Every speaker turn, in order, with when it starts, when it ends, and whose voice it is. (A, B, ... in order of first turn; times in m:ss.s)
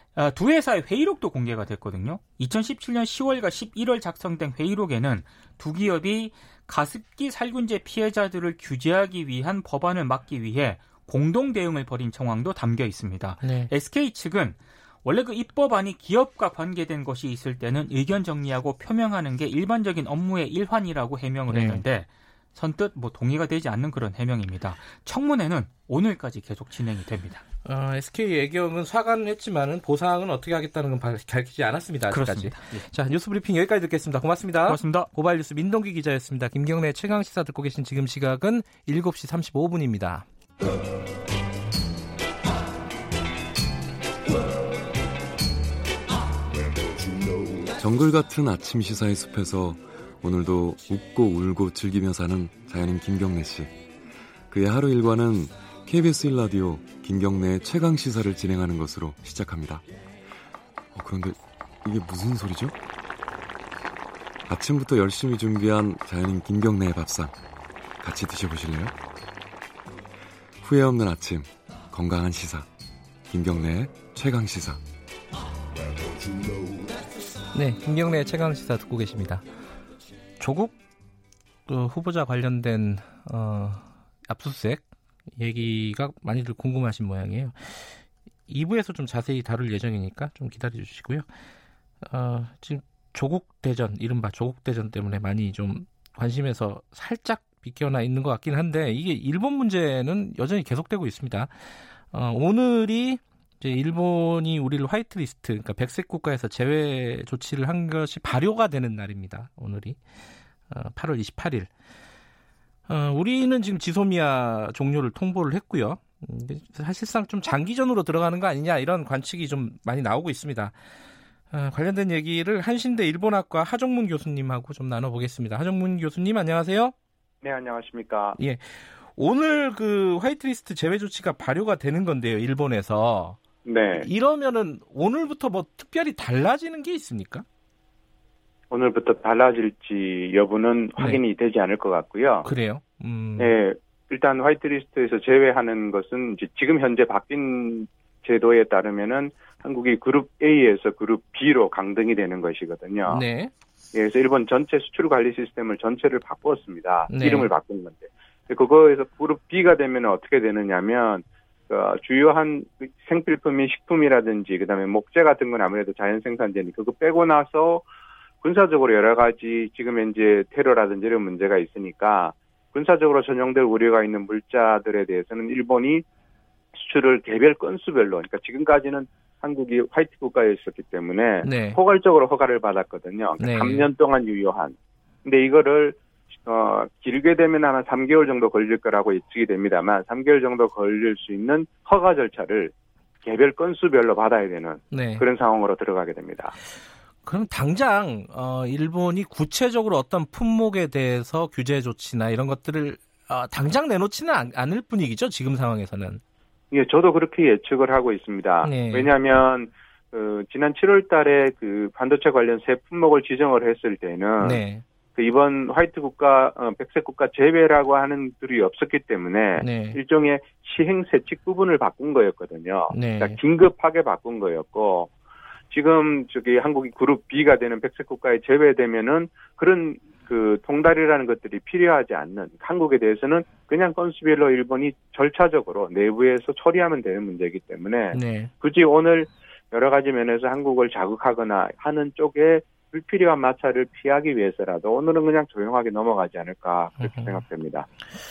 0:00.2-0:27.4 A
0:13.4-0:13.7 B
0:21.5-0:21.8 B
0:27.6-0:40.3 B
0:32.1-0:32.8 A
0:34.7-0:35.1 A
0:47.7-0:53.7 C
0:54.5-0:59.8 C
1:01.0-1:02.8 C
1:04.5-1:07.4 C
1:08.0-1:09.0 C
1:10.6-1:12.7 C
1:13.3-1:14.8 C
1:17.5-1:19.4 B
1:20.4-1:20.8 B
1:21.7-1:24.8 B
1:25.4-1:31.3 B
1:32.0-1:41.5 B
1:42.1-1:50.0 B
1:50.7-1:51.7 B
1:52.9-2:00.7 B
2:01.5-2:06.9 B
2:07.4-2:08.4 D
2:08.4-2:13.4 B
2:13.7-2:14.1 D
2:14.0-2:17.4 B
2:18.7-2:22.5 D
2:22.4-2:23.5 B
2:23.4-2:33.2 D
2:33.1-2:33.5 B
2:33.9-2:47.8 D
2:37.1-2:37.5 B
2:48.4-2:56.0 D
2:56.7-3:12.7 D
3:01.4-3:01.8 B
3:03.4-3:03.9 B
3:13.2-3:16.6 D
3:14.9-3:15.3 B
3:17.2-3:26.2 B
3:26.7-3:34.6 D
3:28.6-3:29.1 B
3:34.4-3:34.8 B
3:35.2-3:45.1 D
3:39.6-3:40.0 B
3:42.9-3:43.4 B
3:45.7-4:07.9 D
3:58.1-3:58.5 B
4:07.0-4:07.4 B